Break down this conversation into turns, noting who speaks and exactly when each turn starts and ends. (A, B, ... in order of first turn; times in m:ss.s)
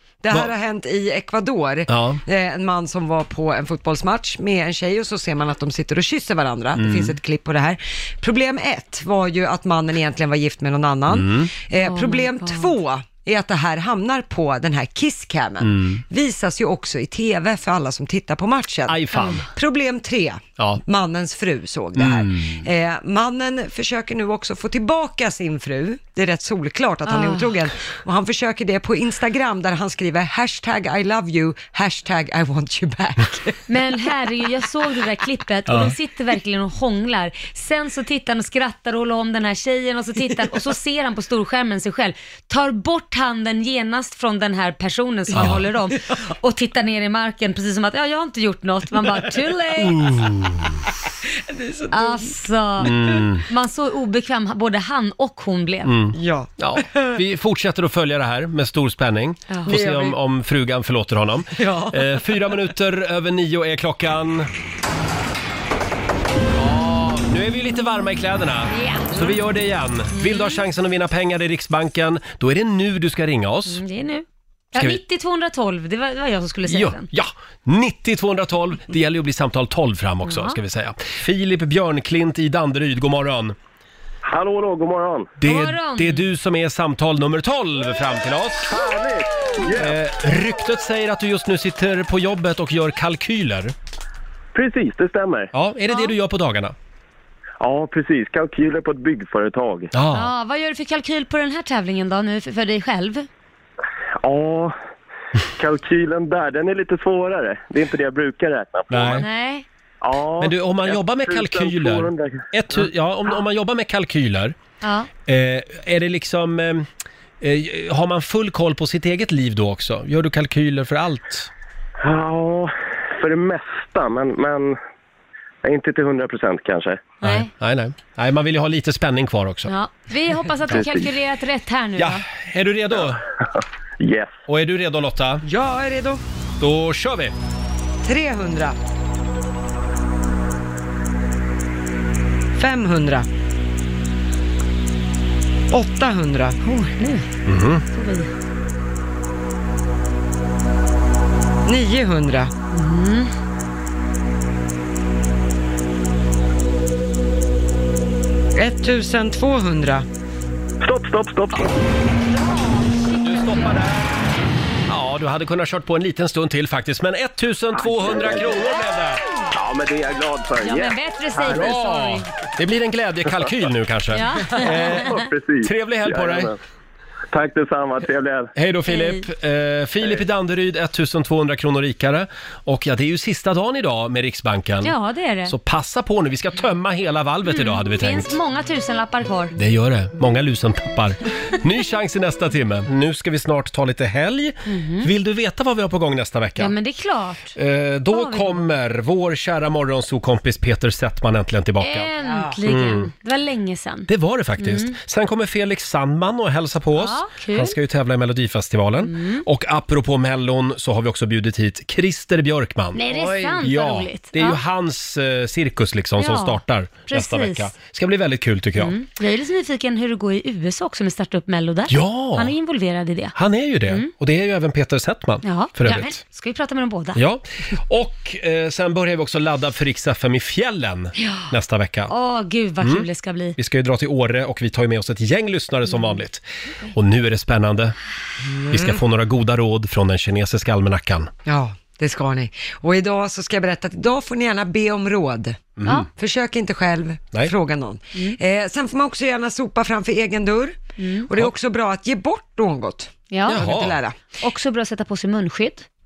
0:00.2-0:33.6 A
0:01.9-0:02.2 B
0:06.8-0:07.2 B
0:11.1-0:11.5 B
0:11.8-0:12.7 C
0:15.6-0:16.0 B
0:18.9-0:19.5 B
0:19.1-0:19.4 C
0:22.0-0:22.7 B
0:27.1-0:27.5 C
0:33.7-0:50.1 C
0:45.3-0:45.7 B
0:49.8-0:50.8 B
0:51.5-0:52.3 A
0:51.9-0:56.0 C
0:52.8-0:53.4 B
0:55.8-1:04.5 B
0:56.2-0:57.2 A
0:59.5-0:59.7 C
0:59.7-1:00.2 A
1:01.6-1:02.3 A
1:06.6-1:13.8 B
1:08.7-1:09.4 C
1:10.1-1:10.6 C
1:13.7-1:17.1 C
1:14.7-1:15.0 B
1:16.7-1:23.6 B
1:20.2-1:20.6 C
1:24.2-1:25.3 D
1:25.4-1:28.8 B
1:25.4-1:26.3 C
1:28.7-1:30.0 D
1:29.7-1:33.7 B
1:34.5-1:35.5 D
1:35.5-1:36.8 B
1:35.9-1:36.1 C
1:37.6-1:39.9 D
1:39.9-1:40.3 B
1:40.1-1:43.3 C
1:44.2-1:44.8 D
1:45.6-1:49.2 D
1:48.9-1:49.3 B
1:49.1-1:49.6 C
1:50.0-1:52.8 D
1:50.4-1:54.6 B
1:54.8-1:55.1 C
1:55.3-1:56.9 B
1:57.4-2:01.5 B
2:02.0-2:04.8 D
2:05.6-2:07.1 D
2:07.2-2:07.5 C
2:07.2-2:09.7 B
2:09.7-2:12.2 C
2:10.7-2:11.1 D
2:12.0-2:13.2 B
2:14.0-2:14.3 D
2:14.5-2:15.4 B
2:15.4-2:16.2 A
2:16.6-2:17.4 B
2:18.0-2:18.8 A
2:22.6-2:23.3 A
2:25.7-2:26.6 A
2:26.6-2:27.3 C
2:27.5-2:27.8 B
2:27.9-2:28.3 C
2:31.7-2:32.5 A
2:32.7-2:33.3 C
2:38.6-2:40.1 A
2:40.8-2:41.7 D
2:42.3-2:43.7 C
2:43.2-2:44.1 B
2:44.9-2:49.2 B
2:47.7-2:48.6 D
2:49.5-2:50.9 D
2:50.6-2:52.3 C
2:51.4-2:56.5 B
2:54.1-2:55.3 C
2:54.7-2:56.6 D
2:57.3-2:58.5 D
2:58.6-3:04.9 B
2:58.9-2:59.3 C
3:04.8-3:05.6 C
3:05.5-3:08.4 B
3:07.5-3:09.5 C
3:09.6-3:16.8 B
3:14.7-3:15.1 C
3:16.6-3:17.6 C
3:17.6-3:22.1 B
3:18.1-3:18.6 C
3:21.8-3:25.0 C
3:22.2-3:22.6 A
3:22.6-3:23.1 B
3:24.1-3:39.0 B
3:26.9-3:27.8 C
3:29.0-3:29.4 C
3:32.9-3:34.6 C
3:36.2-3:37.7 C
3:38.8-3:43.3 C
3:41.9-3:42.6 B
3:43.4-3:46.1 B
3:45.4-3:47.2 C
3:47.2-3:52.1 B
3:51.2-3:51.5 C
3:52.1-3:53.6 C
3:52.8-3:58.0 B
3:55.9-3:56.2 C
3:58.5-3:59.0 A
3:58.7-4:01.3 B
4:01.5-4:05.6 A
4:05.8-4:06.1 B
4:06.1-4:14.2 A
4:08.1-4:08.4 C
4:11.0-4:11.3 C
4:13.3-4:13.7 C
4:13.5-4:14.0 B
4:14.3-4:15.9 C